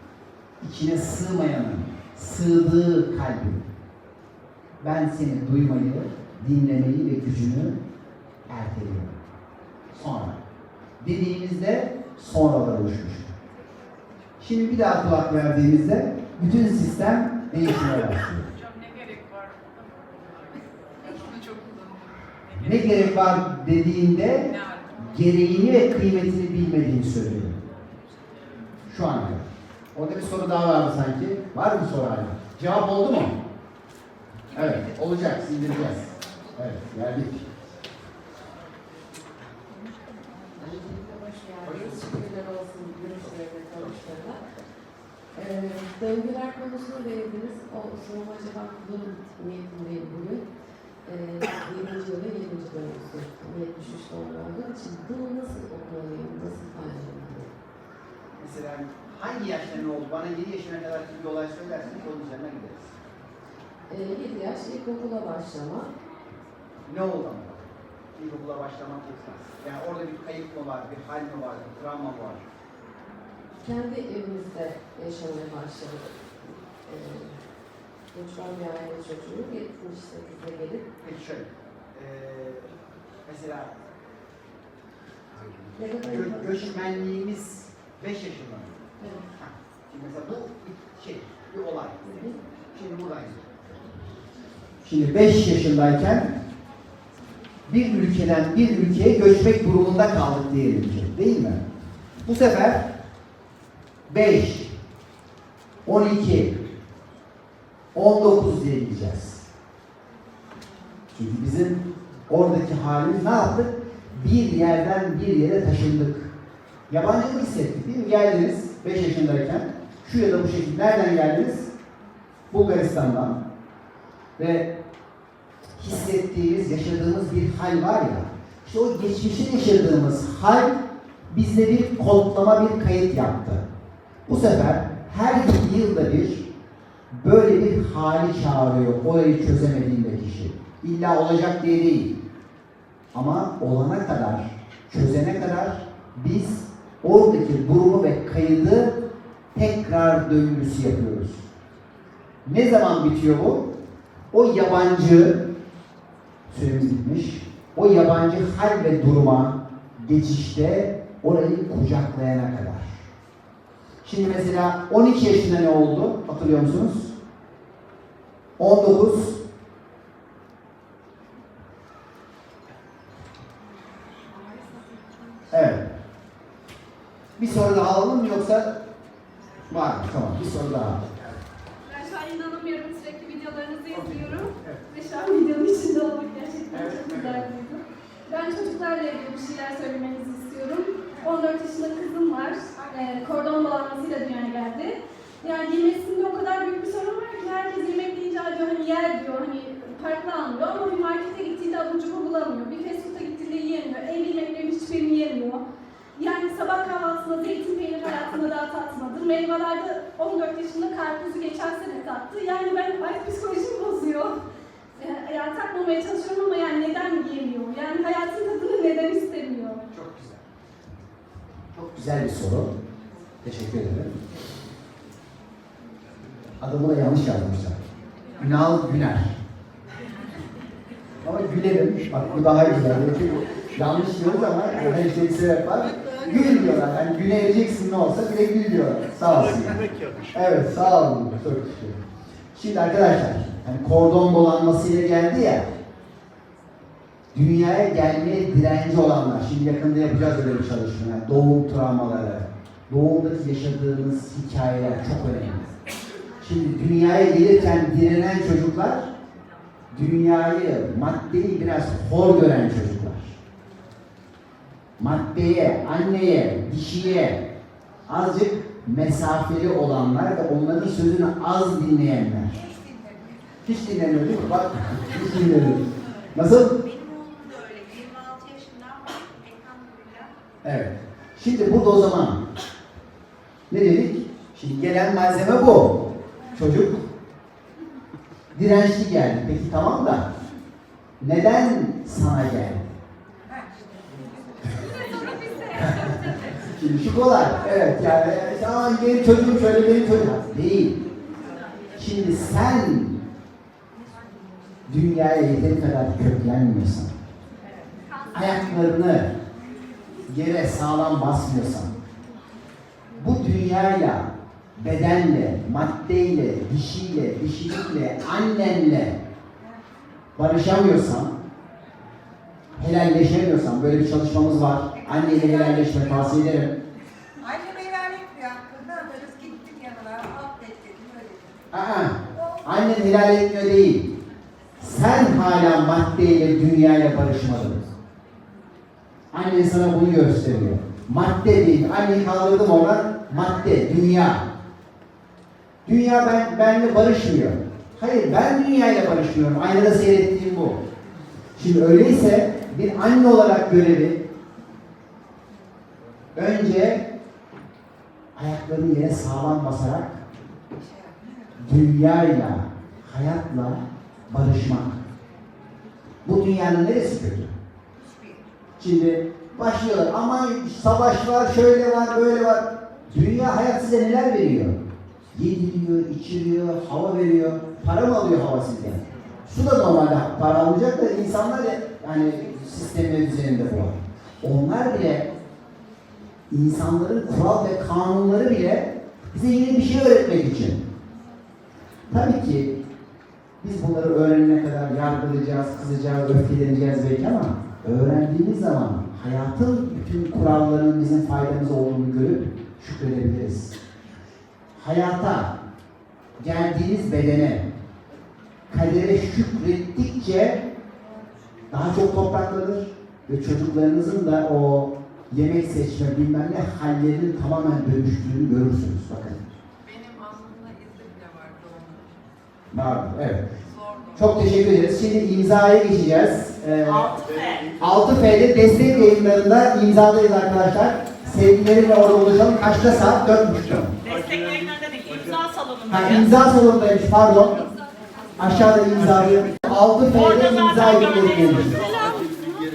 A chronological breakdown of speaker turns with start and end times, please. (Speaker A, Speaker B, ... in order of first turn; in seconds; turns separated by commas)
Speaker A: 0.6-3.6, Speaker A: 4.8-7.8, Speaker A: 8.5-9.1, Speaker A: 9.9-10.4, Speaker A: 11.0-13.3, Speaker A: 14.4-18.5, Speaker A: 22.5-27.6, Speaker A: 28.9-33.4, Speaker A: 34.5-37.5, Speaker B: 40.6-44.4, Speaker B: 45.3-50.5, Speaker B: 51.0-57.5, Speaker A: 58.4-63.0, Speaker B: 63.9-65.9, Speaker A: 66.9-72.4, Speaker B: 73.6-77.4, Speaker B: 78.1-80.9, Speaker A: 81.0-82.7, Speaker A: 83.2-83.7, Speaker B: 85.8-86.7, Speaker A: 86.0-88.8, Speaker B: 89.0-89.3, Speaker A: 89.3-92.0, Speaker B: 92.0-92.4, Speaker A: 92.7-93.5, Speaker A: 94.8-96.3, Speaker A: 97.7-101.6, Speaker A: 102.2-102.9, Speaker A: 104.1-104.7, Speaker A: 105.8-106.6, Speaker A: 107.9-109.5, Speaker A: 111.2-116.3, Speaker A: 116.9-121.7, Speaker A: 122.5-123.4, Speaker A: 124.4-124.7, Speaker A: 125.8-130.8, Speaker A: 131.3-133.6, Speaker A: 134.2-136.5, Speaker A: 137.1-142.2, Speaker A: 143.1-149.0, Speaker A: 149.5-151.5, Speaker A: 152.4-153.7, Speaker A: 154.3-155.4, Speaker A: 156.5-163.1, Speaker A: 164.0-167.1, Speaker A: 168.6-169.4, Speaker A: 175.5-175.9, Speaker A: 177.4-178.8, Speaker A: 179.7-181.0, Speaker C: 181.8-205.6, Speaker A: 183.9-184.8, Speaker A: 186.7-187.5, Speaker C: 206.2-214.4, Speaker C: 214.9-219.8, Speaker A: 219.9-220.4, Speaker A: 221.7-222.7, Speaker A: 223.4-224.2, Speaker A: 226.6-227.8, Speaker A: 228.4-229.4, Speaker A: 231.2-242.0, Speaker A: 242.5-245.7, Speaker A: 247.3-255.7, Speaker A: 256.4-259.1, Speaker A: 259.9-263.4, Speaker A: 265.0-267.4, Speaker A: 268.1-272.7, Speaker A: 273.6-276.8, Speaker D: 277.4-279.3, Speaker A: 280.6-282.4, Speaker A: 283.7-287.0, Speaker A: 288.5-290.3, Speaker A: 291.2-293.0, Speaker C: 294.7-296.4, Speaker A: 295.8-301.0, Speaker A: 301.9-303.2, Speaker A: 304.9-307.1, Speaker A: 308.3-309.3, Speaker A: 310.3-311.9, Speaker A: 313.1-319.2, Speaker A: 320.4-321.4, Speaker A: 322.8-326.8, Speaker D: 327.5-331.3, Speaker A: 331.7-334.1, Speaker A: 334.8-337.9, Speaker A: 339.3-344.5, Speaker A: 345.8-350.8, Speaker A: 351.6-354.2, Speaker A: 356.3-357.1, Speaker A: 358.3-360.2, Speaker A: 361.6-365.0, Speaker A: 366.2-367.5, Speaker A: 368.8-374.8, Speaker A: 375.3-385.3, Speaker A: 386.5-390.8, Speaker A: 392.1-392.8, Speaker A: 393.6-403.8, Speaker A: 404.8-405.6, Speaker A: 406.4-407.7, Speaker A: 408.7-410.6, Speaker A: 411.7-419.4, Speaker D: 420.3-421.9, Speaker A: 422.7-423.5, Speaker A: 424.1-427.2, Speaker E: 427.0-427.7, Speaker A: 427.8-434.0, Speaker E: 434.1-436.0, Speaker A: 435.9-437.6, Speaker A: 438.4-441.8